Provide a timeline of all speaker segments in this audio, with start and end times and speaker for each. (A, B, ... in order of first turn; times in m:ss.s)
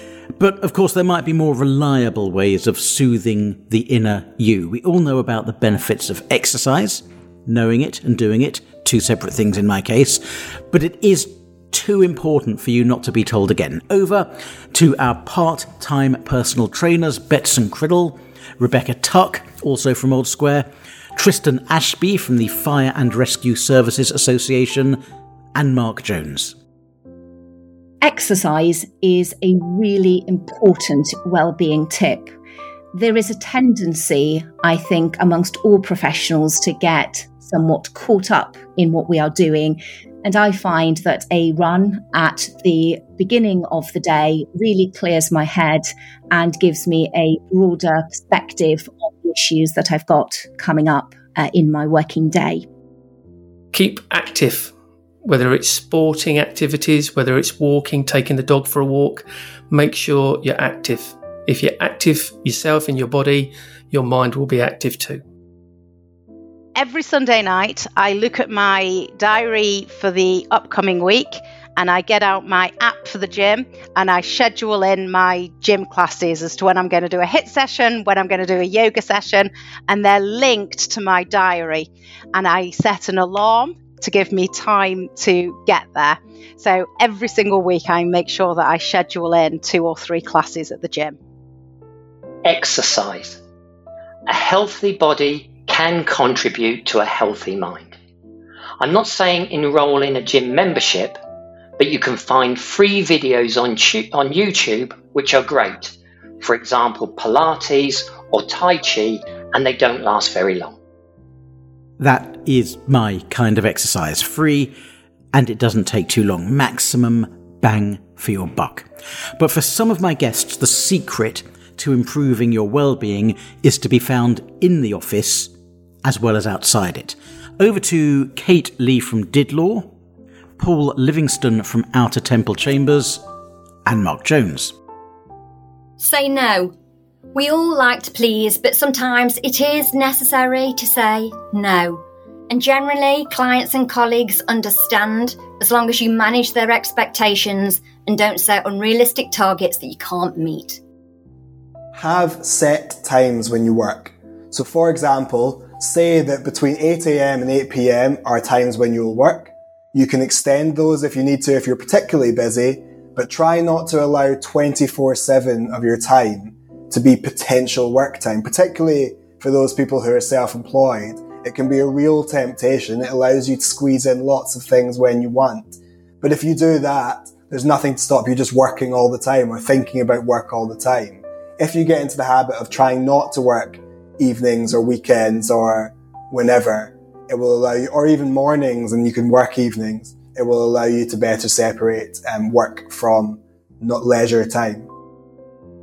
0:00.4-0:25.0 A
0:25.6-0:26.6 A
0:28.0-0:32.4 B
0:32.9-0:52.7 B
1:01.5-1:04.1 C
1:04.7-1:05.2 C
1:06.8-1:31.2 D
1:32.5-1:33.4 E
1:34.3-1:38.0 E
1:38.8-1:41.2 E
1:41.8-1:50.8 E
1:52.0-1:54.7 A
1:55.3-1:58.9 A
1:59.4-2:05.5 A
2:06.0-2:09.9 A
2:10.6-2:13.2 A
2:13.9-2:14.8 A
2:16.0-2:16.7 F
2:17.3-2:30.8 F
2:32.0-3:14.9 G